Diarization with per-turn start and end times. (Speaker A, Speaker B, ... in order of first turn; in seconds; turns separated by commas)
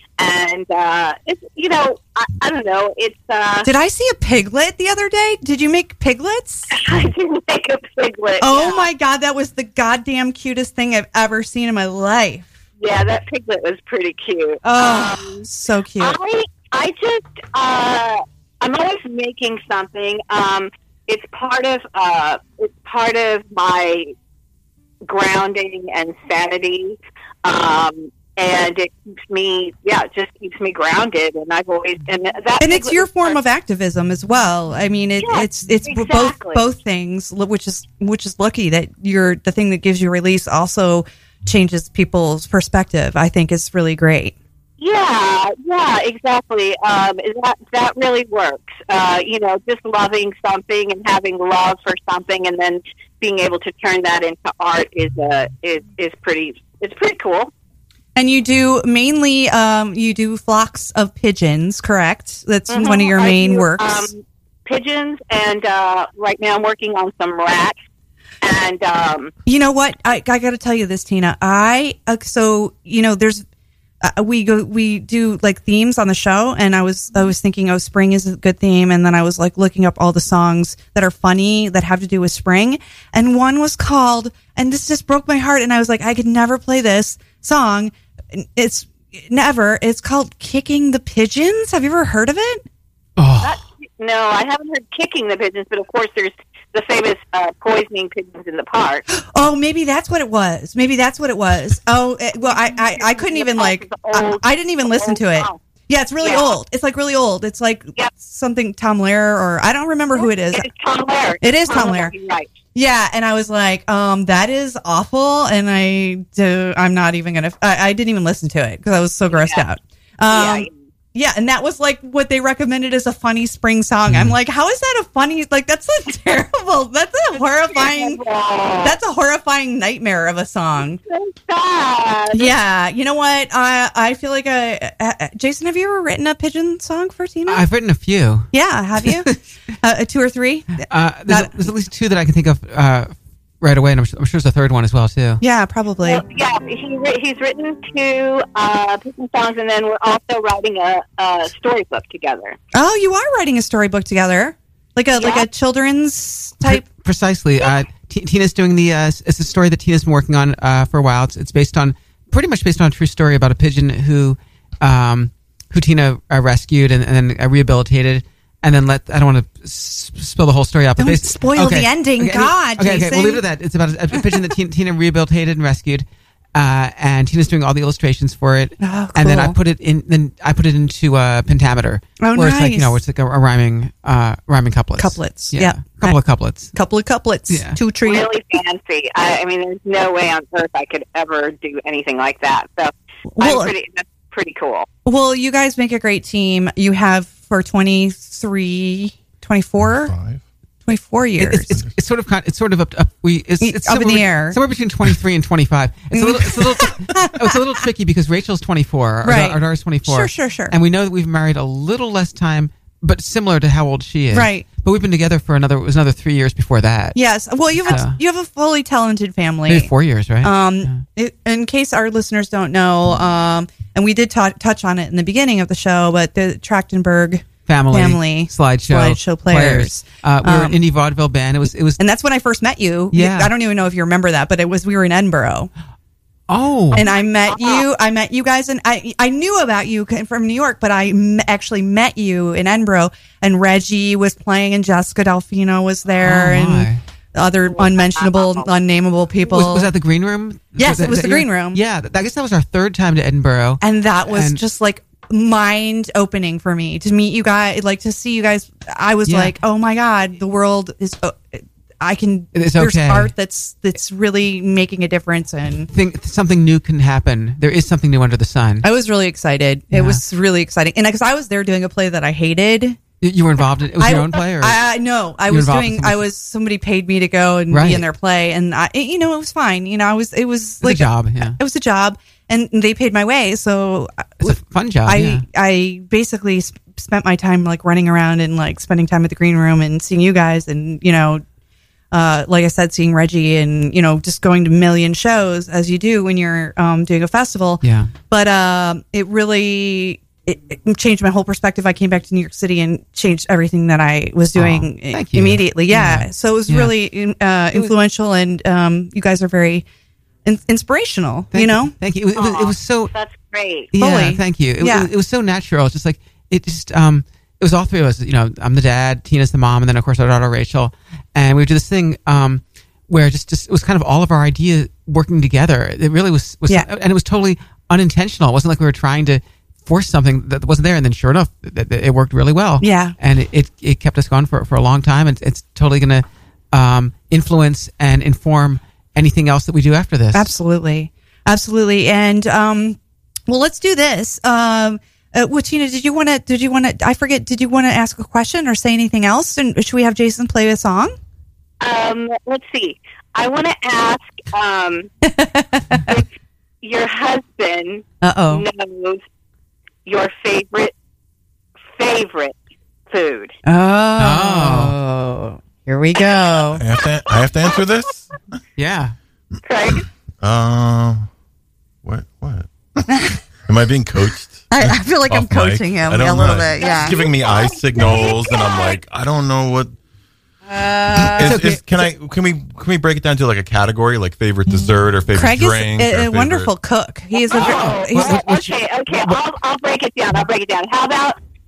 Speaker A: 0.2-3.7, Speaker B: 3.6-6.7, Speaker A: 6.7-8.9, Speaker B: 8.4-12.5, Speaker A: 12.8-15.4, Speaker B: 14.6-16.2, Speaker A: 16.0-24.1, Speaker A: 25.0-33.4, Speaker B: 32.6-44.4, Speaker A: 35.2-36.7, Speaker A: 44.8-57.5, Speaker B: 58.1-64.1, Speaker A: 62.7-67.8, Speaker A: 68.4-69.3, Speaker B: 69.5-73.4, Speaker B: 74.0-92.6, Speaker C: 93.2-93.6, Speaker A: 93.4-99.0, Speaker B: 99.1-110.7, Speaker A: 102.5-105.6, Speaker A: 106.2-106.6, Speaker A: 110.2-112.5, Speaker B: 111.4-112.1, Speaker B: 112.7-128.2, Speaker A: 119.3-119.6, Speaker A: 120.3-120.8, Speaker C: 124.1-124.3, Speaker A: 127.7-129.0, Speaker B: 128.8-131.0, Speaker A: 131.1-132.5, Speaker B: 132.3-137.6, Speaker C: 137.5-139.4, Speaker B: 138.5-139.3, Speaker B: 139.8-141.6, Speaker C: 140.8-145.4, Speaker B: 145.4-146.2, Speaker A: 146.0-152.6, Speaker B: 152.7-156.9, Speaker A: 155.2-155.5, Speaker C: 156.6-186.7, Speaker B: 171.0-173.4, Speaker B: 178.8-179.6, Speaker B: 182.2-182.9, Speaker B: 185.0-188.3, Speaker C: 187.5-187.8, Speaker A: 188.0-194.9, Speaker B: 193.3-193.7, Speaker B: 195.0-200.1, Speaker D: 199.8-200.4, Speaker B: 200.9-201.8, Speaker C: 201.4-217.2, Speaker B: 203.6-204.6, Speaker B: 206.1-207.6, Speaker B: 209.2-210.8, Speaker B: 214.3-214.6, Speaker B: 217.1-219.9, Speaker C: 217.8-218.2, Speaker C: 219.7-221.0, Speaker B: 220.4-230.8, Speaker C: 227.7-232.0, Speaker B: 232.0-235.7, Speaker C: 233.1-233.5, Speaker C: 236.5-237.0, Speaker A: 236.9-237.8, Speaker B: 236.9-249.9, Speaker C: 246.2-247.0, Speaker A: 247.7-248.7, Speaker C: 249.4-254.6, Speaker B: 250.8-251.8, Speaker B: 253.8-265.9, Speaker C: 259.2-259.6, Speaker C: 262.5-263.3, Speaker C: 265.9-268.9, Speaker B: 268.8-273.0, Speaker C: 269.9-270.2, Speaker C: 273.2-274.8, Speaker B: 274.0-291.4, Speaker C: 275.5-276.3, Speaker C: 277.7-278.1, Speaker C: 280.8-281.6, Speaker C: 284.4-285.4, Speaker B: 292.1-309.8, Speaker C: 297.8-298.1, Speaker C: 304.5-306.9, Speaker B: 310.4-311.9, Speaker C: 311.5-313.1, Speaker A: 312.3-313.9, Speaker C: 313.9-340.5, Speaker B: 314.0-315.1, Speaker B: 332.8-333.1, Speaker B: 340.3-351.1, Speaker A: 351.8-355.1, Speaker B: 355.2-356.1, Speaker A: 356.8-359.2, Speaker B: 358.2-358.6, Speaker A: 360.1-360.9, Speaker A: 361.9-362.6, Speaker A: 363.1-363.5, Speaker B: 363.6-366.8, Speaker C: 364.2-364.9, Speaker D: 366.8-368.3, Speaker C: 368.8-369.1, Speaker A: 369.6-370.0, Speaker D: 370.4-371.3, Speaker D: 372.0-379.9, Speaker B: 373.1-373.3, Speaker B: 374.7-377.2, Speaker A: 376.8-379.0, Speaker B: 380.7-381.8, Speaker D: 381.1-386.7, Speaker C: 381.4-382.0, Speaker B: 385.3-388.5, Speaker A: 387.4-391.4, Speaker C: 387.6-389.4